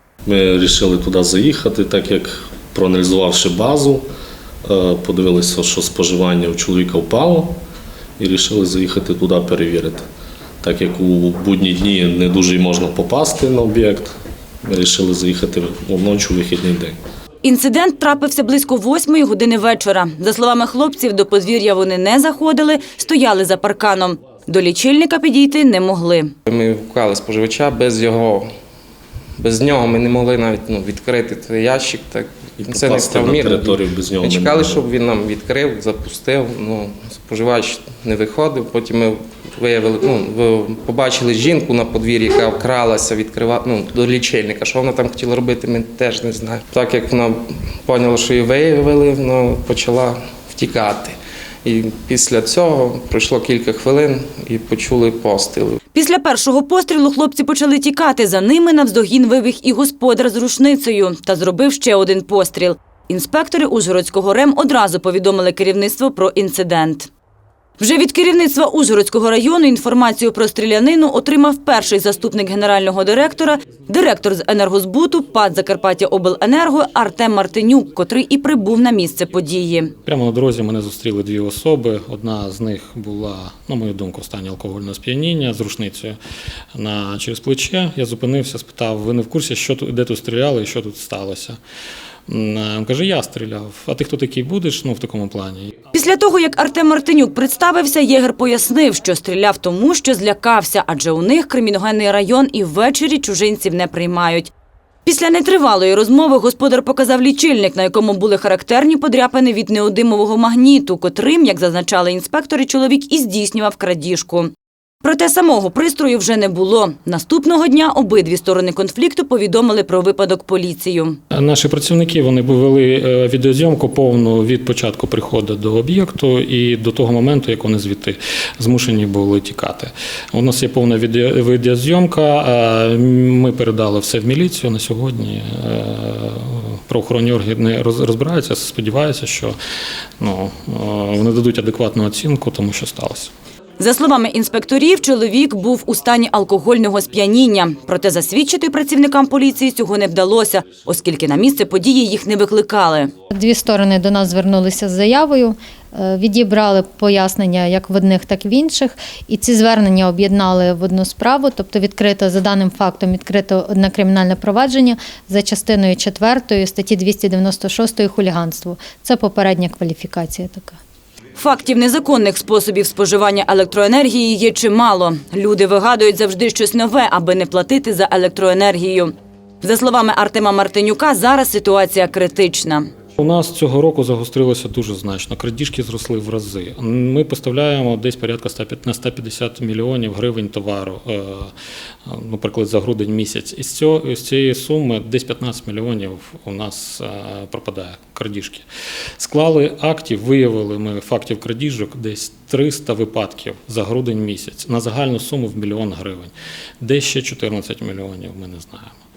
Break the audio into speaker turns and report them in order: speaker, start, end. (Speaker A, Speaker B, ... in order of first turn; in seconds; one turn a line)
Speaker A: 0.2-4.0
Speaker A: 4.6-7.6
Speaker A: 8.2-10.1
Speaker A: 10.6-17.0
Speaker B: 17.4-26.3
Speaker C: 26.5-28.5
Speaker C: 29.4-55.8
Speaker A: 32.6-34.9
Speaker B: 55.9-67.1
Speaker B: 67.8-79.9
Speaker D: 80.0-86.2
Speaker D: 86.8-91.6
Speaker D: 92.3-95.7
Speaker B: 95.9-104.5
Speaker B: 105.0-114.5
Speaker B: 115.0-121.2
Speaker D: 121.3-139.6
Speaker D: 140.2-143.3
Speaker B: 143.8-153.1
Speaker E: 153.3-170.8
Speaker B: 171.4-182.9
Speaker D: 183.2-191.5
Speaker D: 192.1-198.7
Speaker D: 199.2-208.9